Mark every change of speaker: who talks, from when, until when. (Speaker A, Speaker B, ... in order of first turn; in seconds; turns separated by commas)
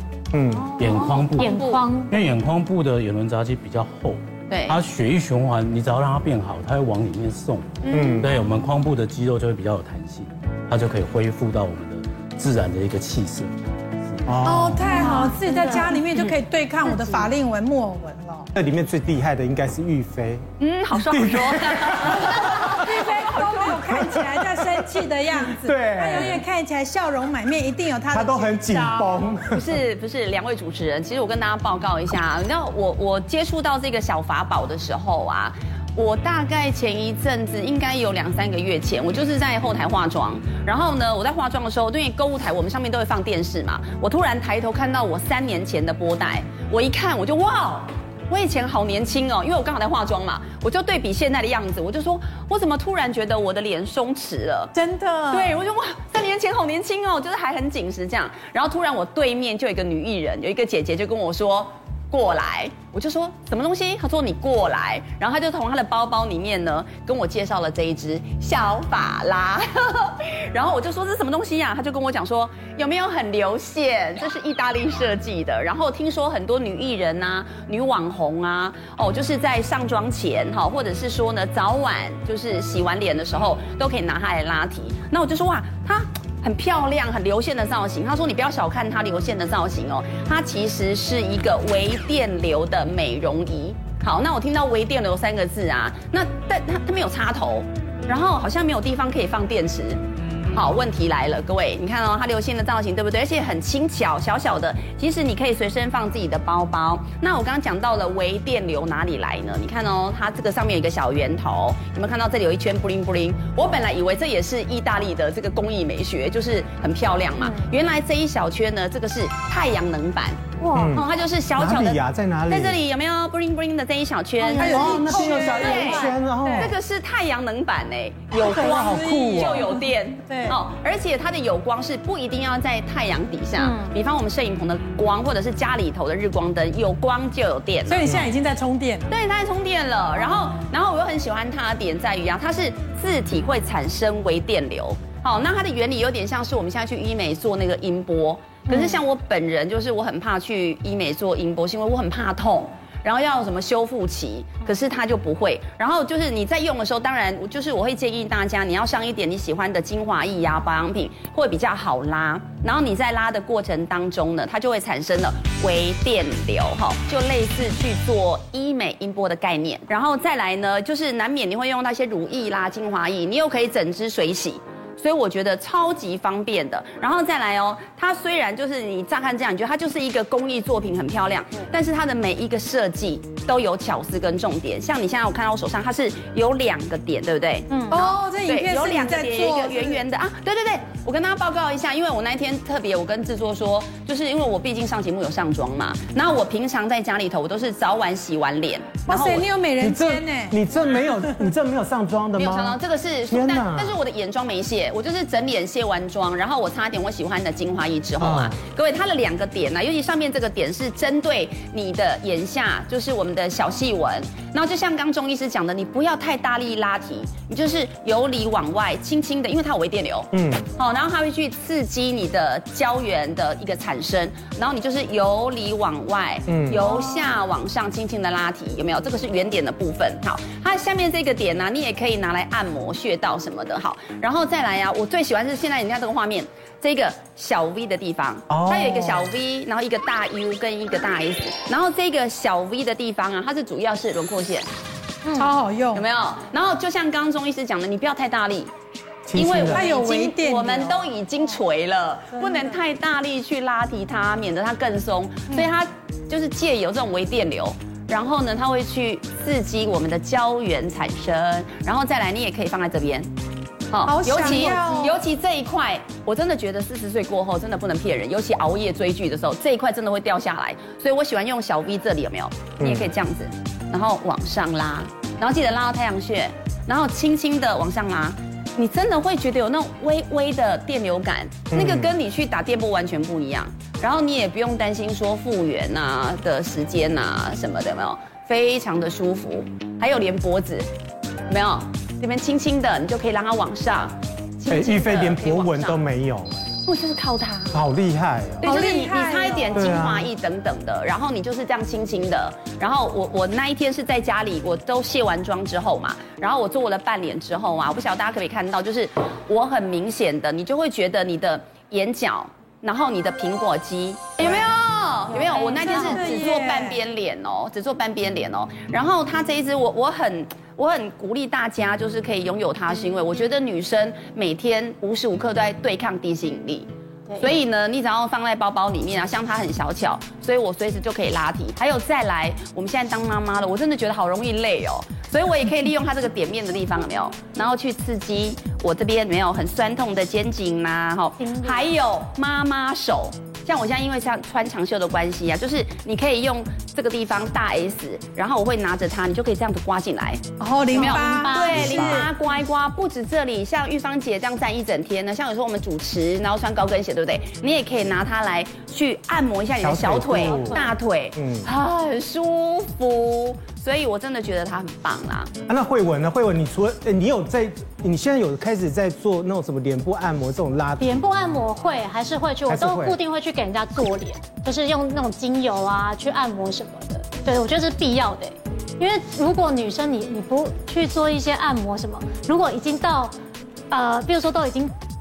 Speaker A: 0.3-0.8, Speaker B: 0.5-2.2, Speaker C: 0.8-13.5, Speaker D: 0.9-1.9, Speaker D: 4.5-4.8, Speaker D: 7.8-8.3, Speaker A: 7.9-8.3, Speaker A: 14.3-15.1, Speaker E: 14.4-18.5, Speaker B: 14.8-16.0, Speaker B: 16.9-17.3, Speaker A: 18.6-22.8, Speaker D: 20.6-23.6, Speaker E: 22.5-29.3, Speaker A: 23.7-26.4, Speaker A: 28.1-29.8, Speaker D: 29.5-54.7, Speaker E: 54.7-55.6, Speaker D: 55.3-138.1, Speaker B: 117.4-117.7, Speaker B: 120.6-121.0, Speaker A: 120.7-122.8, Speaker B: 124.4-126.2, Speaker E: 124.5-125.9, Speaker A: 124.5-126.8, Speaker E: 126.4-126.7, Speaker E: 128.4-130.6, Speaker A: 128.4-129.7, Speaker B: 133.6-133.9, Speaker E: 137.9-139.1, Speaker A: 138.0-138.3, Speaker D: 139.1-199.5, Speaker B: 148.7-149.0, Speaker B: 187.7-188.0, Speaker E: 187.9-190.0, Speaker E: 199.1-200.6, Speaker A: 199.8-204.0, Speaker D: 202.4-244.7, Speaker A: 208.2-208.6, Speaker A: 220.3-220.7, Speaker A: 226.5-226.9, Speaker A: 238.5-239.3, Speaker E: 245.4-246.1, Speaker D: 245.9-248.7, Speaker A: 249.3-249.8, Speaker D: 249.3-263.3, Speaker E: 249.7-251.1, Speaker E: 252.3-252.8, Speaker D: 263.9-290.9, Speaker E: 264.1-265.2, Speaker A: 272.8-273.1, Speaker A: 281.7-282.1, Speaker D: 291.5-296.1, Speaker A: 294.7-296.7, Speaker D: 296.8-297.8, Speaker A: 297.7-298.7, Speaker D: 298.6-365.5, Speaker E: 298.6-299.9, Speaker A: 299.7-300.3, Speaker E: 314.4-314.7, Speaker B: 315.4-316.3, Speaker E: 315.8-317.0, Speaker B: 341.4-341.9, Speaker E: 350.6-352.3, Speaker B: 350.9-352.2, Speaker A: 351.7-352.3, Speaker A: 359.8-360.8, Speaker A: 361.4-361.7, Speaker A: 365.7-371.2, Speaker B: 371.0-383.4, Speaker A: 372.7-373.2, Speaker B: 383.9-384.9